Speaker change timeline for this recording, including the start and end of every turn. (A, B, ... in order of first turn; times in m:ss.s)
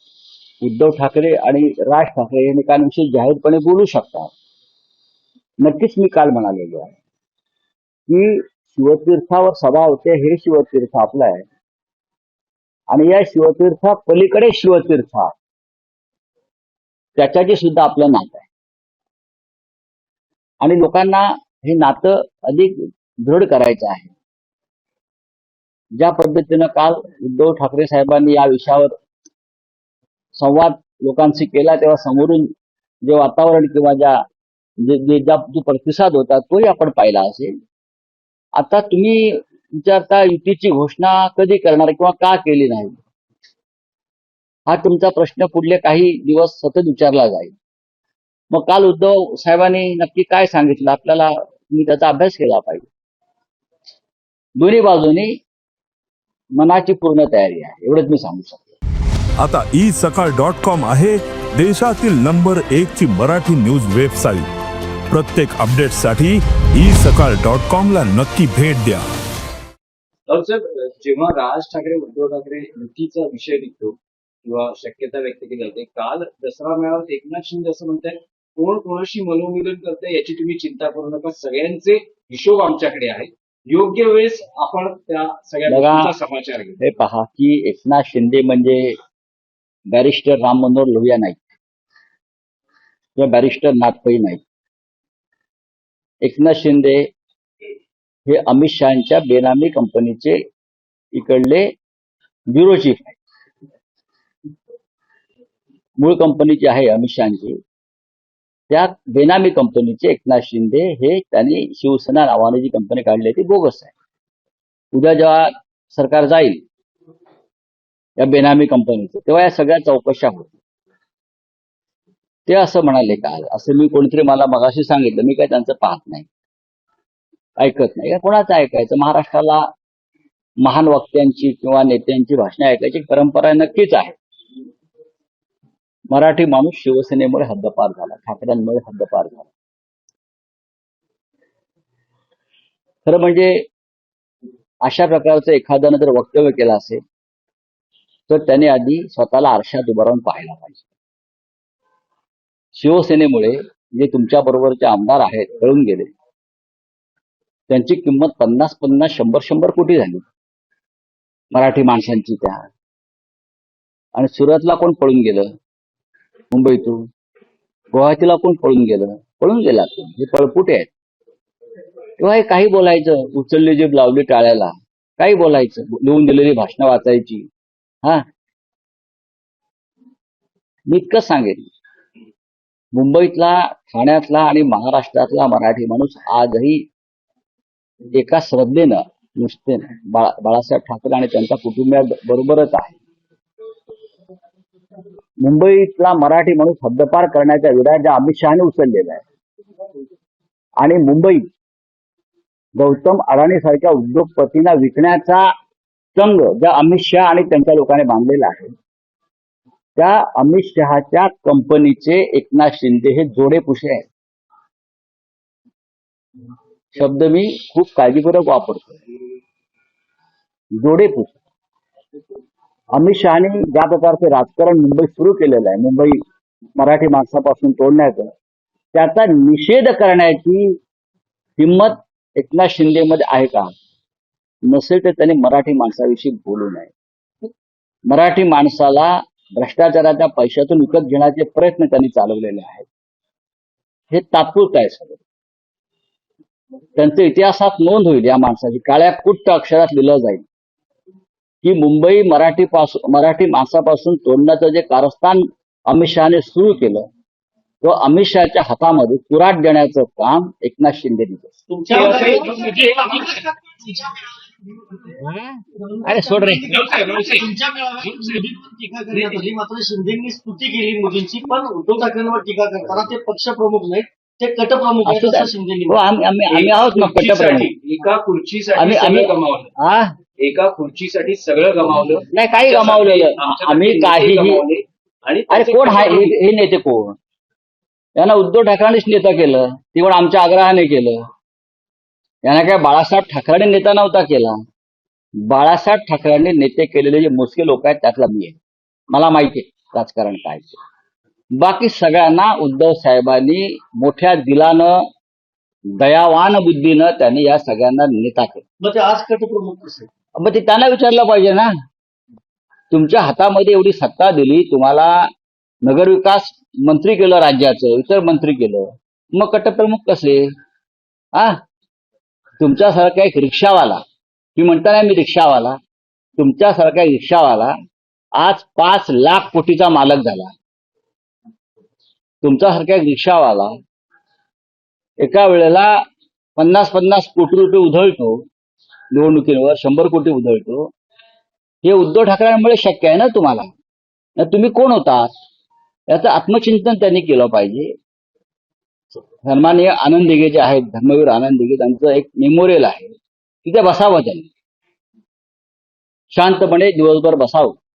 0:00.6-0:04.3 A
0:05.6-0:06.9 A
0:08.1-0:11.4 A
0:12.9-0:15.3 A
0:17.2-0:18.5 A
0:20.6-0:24.1 A
0:26.0-0:28.9 A
0:30.4-0:32.5 A
0:33.0-0:34.2 A
0:34.8-0:37.5 A
0:38.6-0:43.0 A
0:44.7-0:47.5 A
0:48.5-0:52.9 A
0:54.6-0:55.3 A
0:56.6-0:58.6 A
0:59.4-1:04.5 B
1:05.1-1:09.0 B
1:10.3-1:26.8 C
1:25.7-1:26.1 A
1:26.8-1:28.9 A
1:29.9-1:31.5 A
1:33.2-1:34.4 A
1:36.2-1:37.0 A
1:38.3-1:40.4 A
1:41.1-1:41.7 A
1:42.5-1:43.2 A
1:46.0-1:47.6 A
1:48.7-1:53.9 A
1:54.9-1:56.6 A
1:58.2-2:00.5 A
2:02.5-2:06.3 A
2:07.6-2:09.7 A
2:10.6-2:14.1 A
2:16.1-2:19.5 A
2:23.0-2:23.6 A
2:24.8-2:27.0 A
2:28.3-2:30.8 A
2:32.7-2:36.1 A
2:37.7-2:40.2 A
2:41.5-2:42.6 A
2:44.1-2:45.5 A
2:46.5-2:47.0 A
2:47.9-2:50.9 A
2:52.2-2:57.4 A
3:00.9-3:01.6 A
3:02.9-3:06.8 A
3:08.1-3:12.9 A
3:15.4-3:19.2 A
3:20.8-3:21.4 A
3:22.8-3:25.5 A
3:26.2-3:28.7 A
3:30.0-3:34.0 A
3:36.9-3:39.0 A
3:40.8-3:41.4 A
3:42.9-3:46.2 A
3:46.8-3:48.3 A
3:48.9-3:50.8 A
3:51.6-3:53.7 A
3:54.7-3:56.9 A
3:58.1-4:02.8 A
4:04.1-4:05.2 A
4:07.0-4:10.4 A
4:11.6-4:17.1 A
4:17.8-4:21.5 A
4:21.7-4:24.3 D
4:22.1-4:22.5 C
4:25.2-4:26.8 A
4:25.8-4:36.0 D
4:35.0-4:37.7 A
4:36.5-4:39.7 C
4:38.8-4:40.1 A
4:40.4-4:46.3 C
4:42.3-4:44.6 A
4:45.5-4:47.2 A
4:48.2-4:51.2 A
4:52.4-4:54.6 A
4:55.5-4:58.6 A
4:59.1-5:00.8 A
5:01.6-5:05.0 A
5:06.0-5:08.6 A
5:08.8-5:10.1 D
5:10.4-5:11.7 A
5:12.9-5:15.3 A
5:15.8-5:20.5 A
5:22.6-5:24.0 A
5:24.6-5:25.8 A
5:26.4-5:27.7 A
5:28.4-5:30.5 A
5:32.4-5:33.8 A
5:35.2-5:36.0 A
5:36.6-5:38.4 A
5:39.1-5:40.9 A
5:41.8-5:43.7 A
5:44.4-5:45.3 A
5:46.1-5:47.9 A
5:49.1-5:53.1 A
5:53.6-5:54.5 A
5:56.3-5:57.8 A